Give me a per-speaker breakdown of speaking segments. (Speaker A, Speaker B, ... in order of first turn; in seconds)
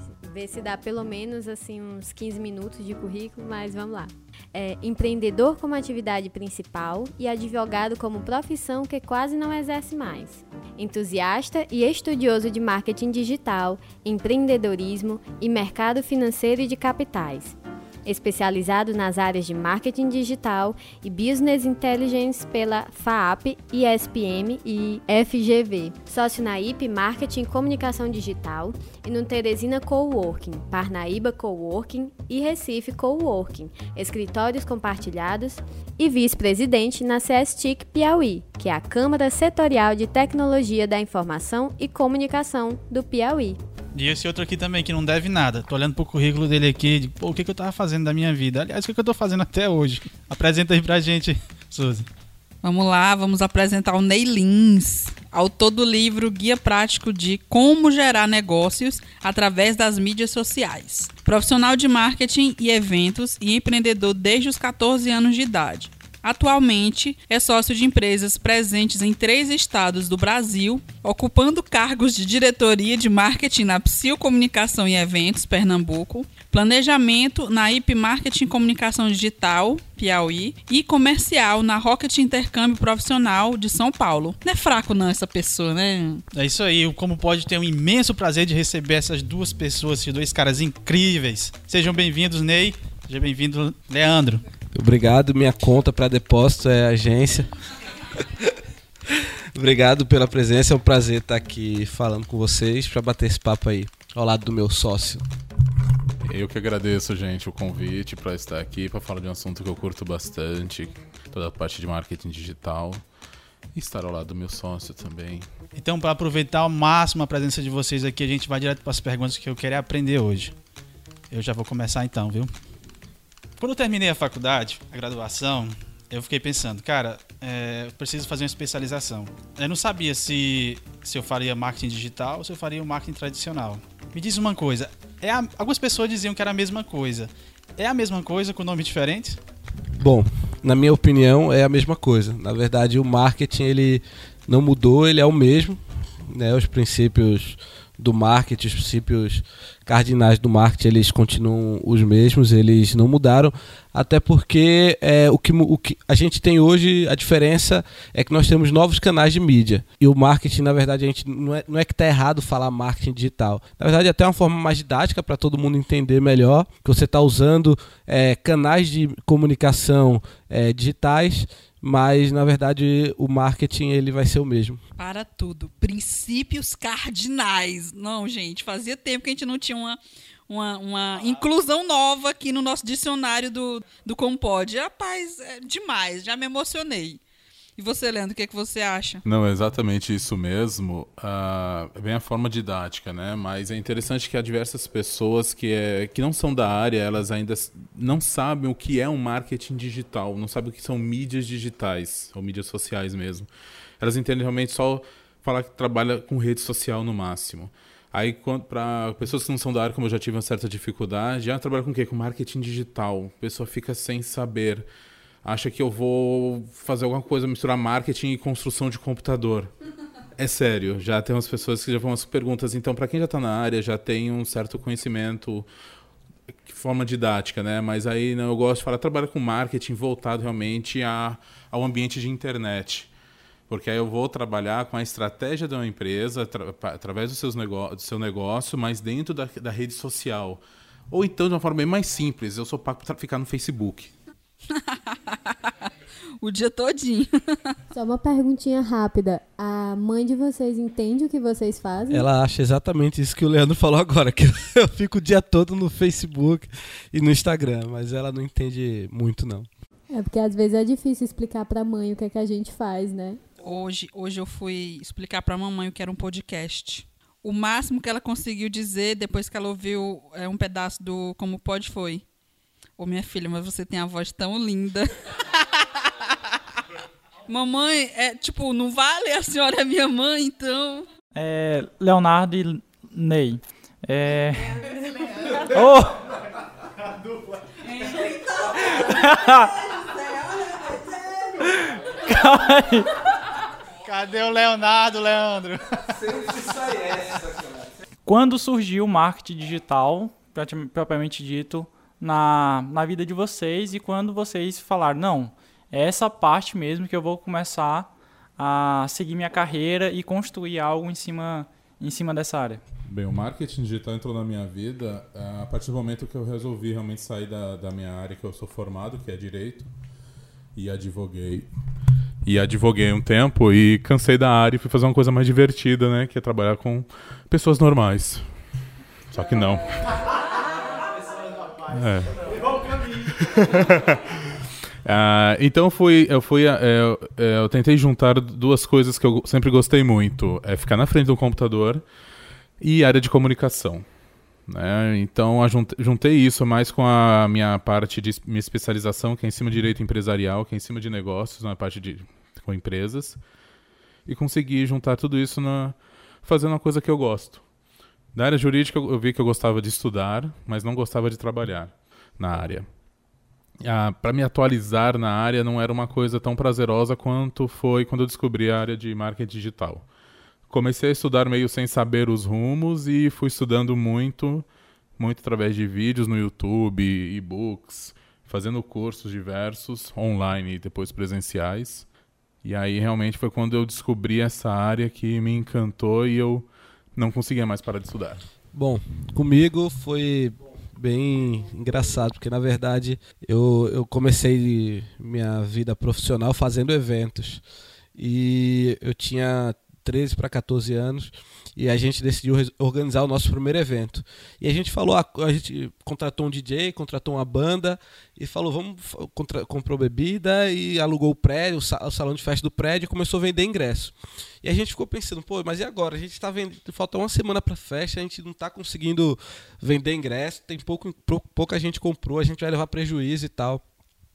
Speaker A: 0.2-43.6, 247.9-252.3, 260.1-263.4
Speaker B: 43.9-52.1, 86.3-94.4, 115.8-120.5, 121.3-122.5, 123.6-139.4, 294.0-296.1
Speaker C: 52.6-86.2, 175.0-187.2, 187.8-189.2, 244.7-247.7, 263.6-272.2, 273.0-276.3, 277.5-281.1
Speaker D: 94.7-97.5, 98.2-98.5, 99.1-105.2, 140.0-174.8, 252.1-259.7, 290.8-291.5, 296.1-297.9, 388.7-397.6, 398.1-423.8
Speaker E: 106.2-113.0, 113.7-115.5, 189.2-203.5, 204.0-214.9, 215.4-219.7, 220.3-225.7, 226.7-233.1, 233.7-244.1, 313.1-319.9, 320.7-321.7, 322.4-328.5, 329.3-330.2, 331.9-332.4, 333.0-334.4, 335.0-342.0, 342.8-344.1, 344.7-353.4, 354.3-357.6, 358.3-362.9, 363.8-370.1, 370.7-374.6, 375.2-382.1, 382.6-388.4
Speaker F: 281.4-284.8, 285.7-286.3, 289.0-289.7, 291.7-293.1, 298.2-312.8